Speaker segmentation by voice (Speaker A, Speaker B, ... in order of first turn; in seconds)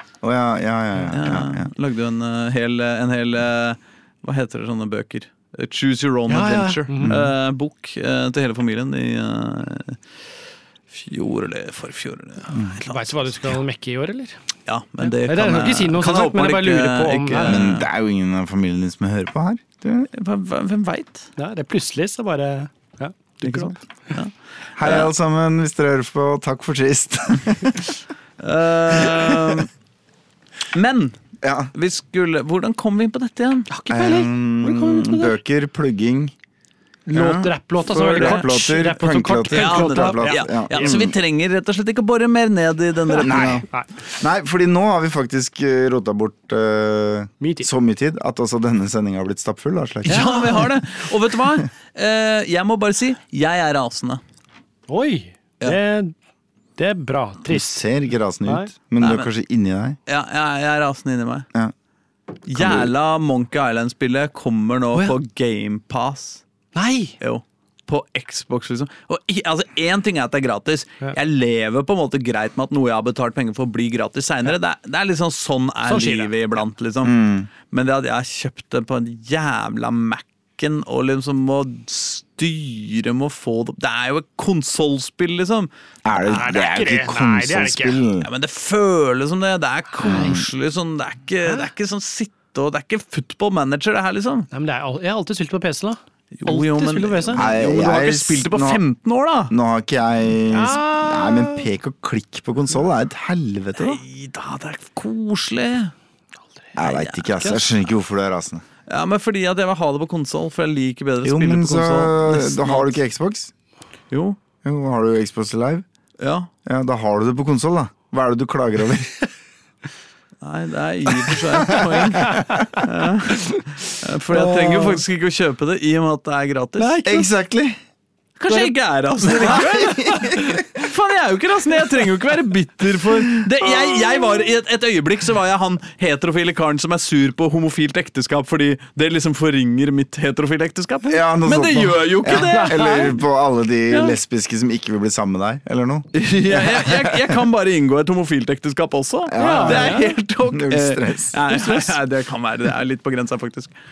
Speaker A: 0.2-1.7, 7.0-7.3, 12.5-12.8, 17.5-20.1, 24.7-28.0, 29.0-29.6, 31.4-31.7, 33.9-36.3, 37.2-41.1, 43.2-50.6, 57.4-60.0, 62.5-62.9, 77.0-77.5, 86.0-88.3, 90.0-90.5, 97.3-98.8, 99.5-104.0, 106.8-108.6, 111.2-113.5, 114.6-115.8, 116.7-119.2, 121.2-122.7, 126.8-127.8, 129.5-130.6, 141.1-147.3, 149.3-151.4
Speaker B: 1.1-10.0, 10.9-13.2, 14.7-17.9, 20.1-21.3, 23.4-25.1, 28.4-29.7, 30.7-31.2, 31.7-33.7, 37.1-38.5, 39.5-43.6, 50.0-54.2, 59.0-59.3, 60.0-61.5, 62.5-66.4, 67.2-77.2, 77.7-85.7, 88.2-94.5, 96.3-99.5, 103.8-105.9, 106.7-107.6, 108.9-112.9, 114.1-114.4, 116.2-116.5, 120.4-127.3, 128.4-143.1, 146.1-153.7
Speaker C: 6.3-7.2, 12.5-14.4, 15.1-17.7, 21.4-24.2, 33.7-35.4, 37.1-41.1, 43.1-44.0, 47.4-47.7, 50.0-50.6, 54.9-56.1, 56.8-57.9, 66.7-67.2, 75.8-76.4, 86.2-88.0, 94.5-97.4, 100.5-101.7, 124.3-125.0, 129.3-129.8, 142.3-143.2, 149.4-150.2, 151.6-151.9